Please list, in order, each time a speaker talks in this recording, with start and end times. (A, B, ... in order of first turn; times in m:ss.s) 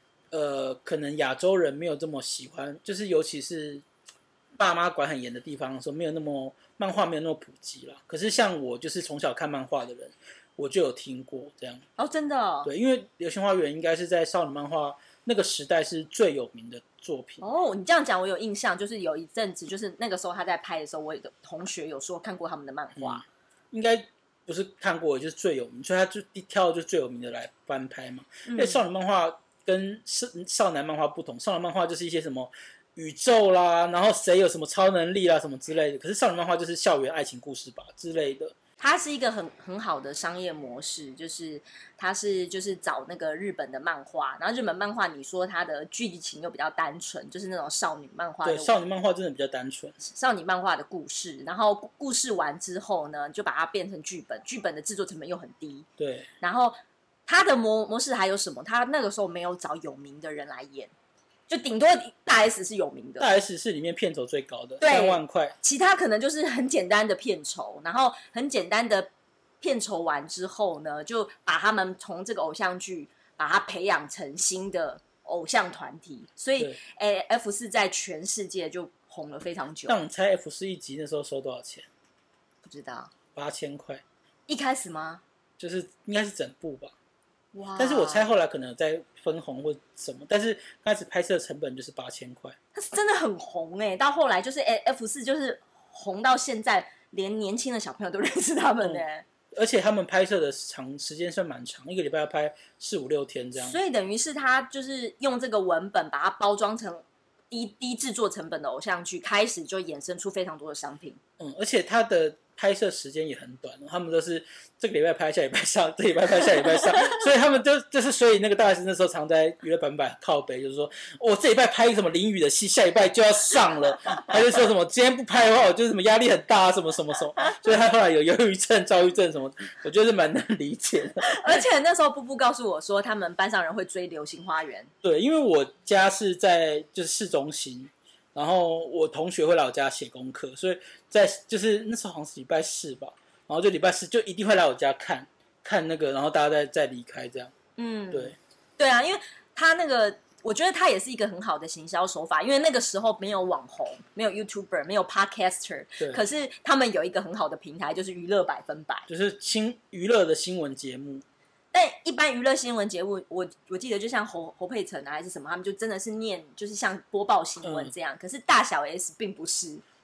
0:00.3-0:03.8 A
0:04.6-0:11.8 A
0:12.0-0:12.7 B
0:12.6-0:17.4 A
0:17.4-0:23.2 B
0:23.0-0:38.6 A
0:28.4-0:28.8 B
0:38.8-0:48.7 B
0:48.4-0:50.0 A
0:50.0-0:55.9 B
0:56.0-0:56.3 A
0:56.4-1:00.9 B
1:01.5-1:03.3 B
1:03.2-1:05.5 A
1:04.8-1:09.1 B
1:09.6-1:20.0 B
1:19.9-1:21.9 A
1:22.6-1:23.1 B
1:23.3-1:24.0 A
1:24.5-1:25.2 B
1:25.6-1:26.9 A
1:27.5-1:28.3 B
1:27.8-1:32.6 A
1:32.7-1:39.2 B
1:38.8-1:43.8 A
1:43.6-1:51.2 B
1:51.4-2:11.5 A
2:11.2-2:14.9 B
2:15.0-2:27.5 A
2:27.8-2:39.1 B
2:28.1-2:28.4 A
2:39.1-2:41.2 A
2:41.7-2:49.8 B
2:47.6-2:47.9 A